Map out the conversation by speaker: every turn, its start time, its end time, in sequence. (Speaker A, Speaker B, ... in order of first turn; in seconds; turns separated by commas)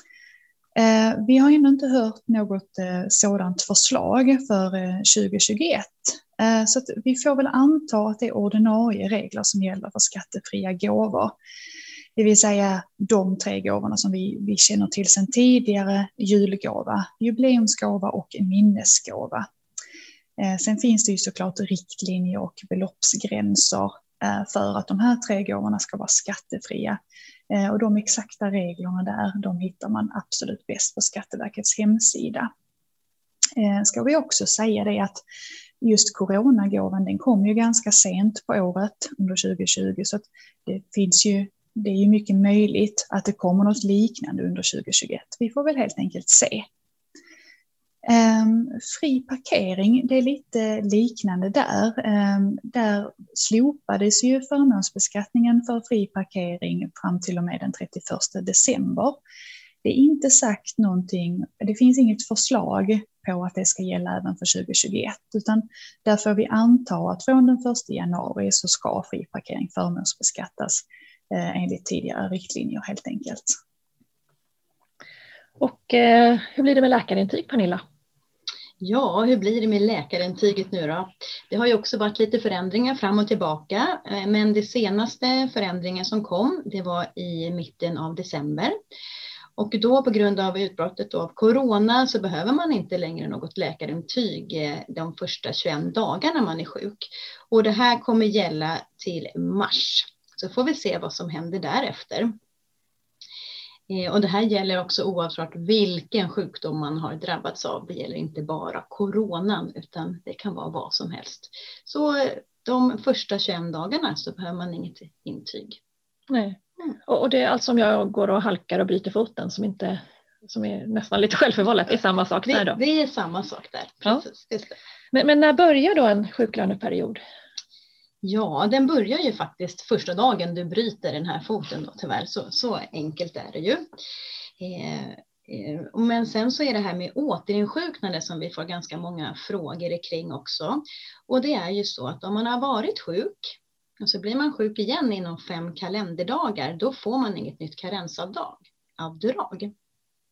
Speaker A: 0.8-11.4, Speaker A: 12.2-19.5, Speaker A: 20.4-27.0, Speaker A: 27.5-32.5, Speaker A: 33.6-35.2, Speaker A: 35.8-46.7, Speaker A: 48.0-59.2, Speaker A: 59.8-73.5, Speaker B: 75.6-77.8, Speaker C: 78.8-88.8, Speaker C: 89.6-102.3, Speaker C: 103.9-115.8, Speaker B: 116.3-122.8, Speaker C: 122.5-124.8, Speaker B: 125.1-127.2, Speaker C: 128.2-133.9, Speaker C: 134.6-149.7